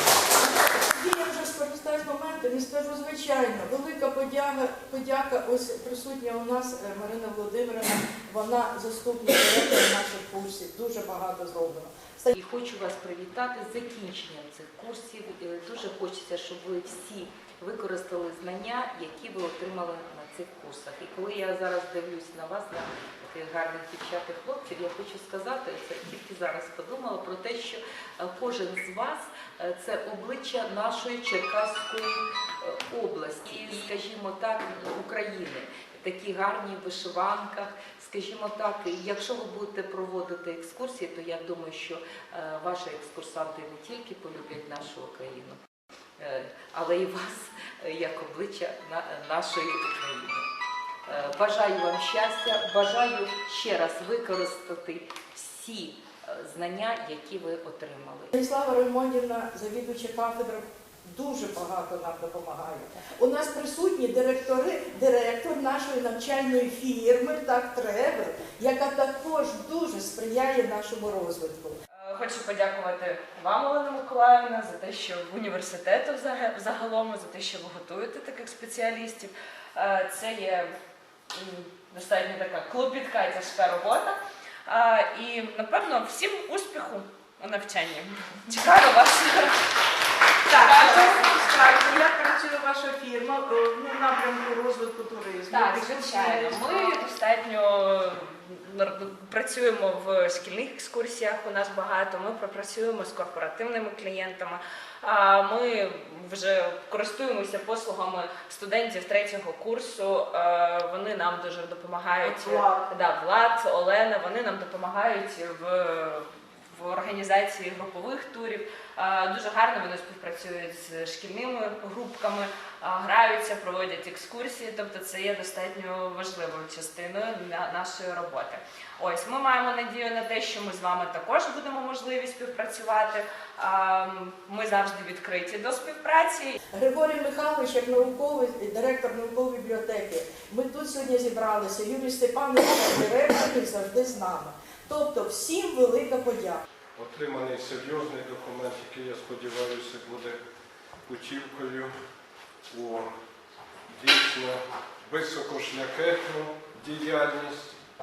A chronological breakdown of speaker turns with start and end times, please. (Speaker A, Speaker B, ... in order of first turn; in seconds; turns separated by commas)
Speaker A: 0.3-12.3, Speaker B: 12.3-45.6, Speaker B: 46.2-50.5, Speaker B: 51.0-58.3, Speaker A: 58.3-71.8, Speaker C: 72.0-80.7, Speaker C: 81.3-89.5, Speaker A: 90.5-97.0, Speaker C: 90.5-91.2, Speaker C: 95.5-136.6, Speaker A: 136.7-146.6, Speaker D: 147.0-150.4, Speaker D: 151.1-151.9, Speaker D: 152.7-153.1, Speaker D: 153.9-157.7